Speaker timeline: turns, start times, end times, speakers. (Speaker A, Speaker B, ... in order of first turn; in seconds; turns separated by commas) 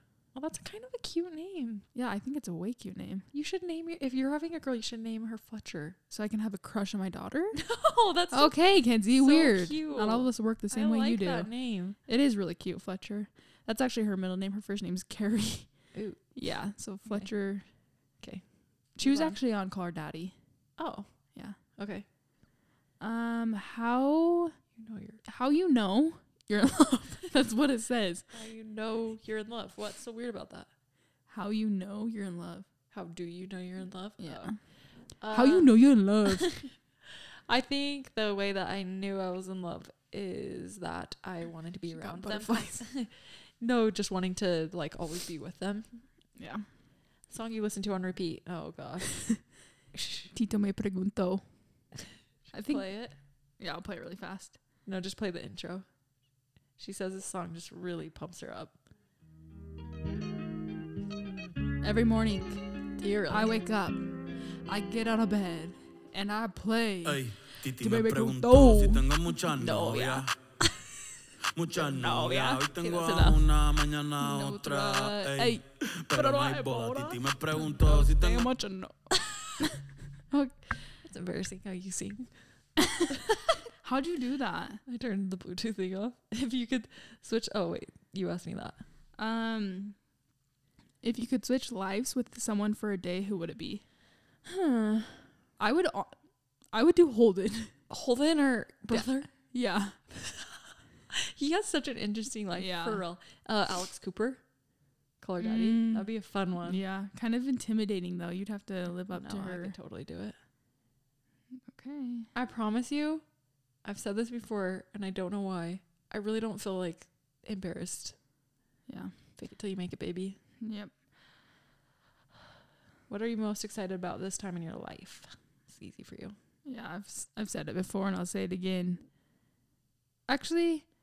Speaker A: 0.3-1.9, Speaker B: 1.9-3.3, Speaker A: 3.3-6.0, Speaker B: 6.1-7.6, Speaker A: 7.5-8.6, Speaker B: 8.3-17.7, Speaker A: 9.2-12.0, Speaker A: 15.9-16.4, Speaker A: 18.2-19.4, Speaker B: 19.0-20.4, Speaker A: 20.8-21.1, Speaker A: 21.7-22.1, Speaker B: 23.0-24.6, Speaker A: 24.8-25.2, Speaker B: 25.2-28.2, Speaker A: 28.3-30.7, Speaker B: 31.3-32.7, Speaker A: 32.9-46.0, Speaker B: 34.2-36.6, Speaker B: 41.9-42.9, Speaker B: 46.4-46.7, Speaker A: 47.3-50.3, Speaker B: 50.3-51.5, Speaker B: 52.5-52.9, Speaker A: 52.5-53.2, Speaker B: 53.6-54.6, Speaker A: 54.9-55.9, Speaker A: 56.8-58.8, Speaker B: 61.8-62.6, Speaker A: 63.0-63.5, Speaker B: 63.3-70.3, Speaker C: 67.1-70.3, Speaker C: 71.5-78.5, Speaker B: 71.7-73.5, Speaker B: 74.2-80.9, Speaker A: 81.0-83.5, Speaker B: 83.8-84.8, Speaker A: 84.9-88.8, Speaker B: 89.2-90.0, Speaker B: 91.0-93.8, Speaker A: 94.5-95.3, Speaker B: 95.6-96.2, Speaker B: 96.7-97.7, Speaker A: 97.9-99.3, Speaker B: 98.9-100.0, Speaker A: 101.1-104.4, Speaker B: 102.6-103.0, Speaker A: 105.2-106.8, Speaker B: 105.4-106.1, Speaker B: 106.6-109.8, Speaker A: 109.1-110.4, Speaker B: 111.7-112.3, Speaker A: 112.3-113.2, Speaker A: 113.8-118.2, Speaker B: 118.9-119.2, Speaker A: 119.4-120.4, Speaker B: 120.6-121.0, Speaker A: 123.1-126.4, Speaker B: 126.7-129.0, Speaker B: 130.3-130.9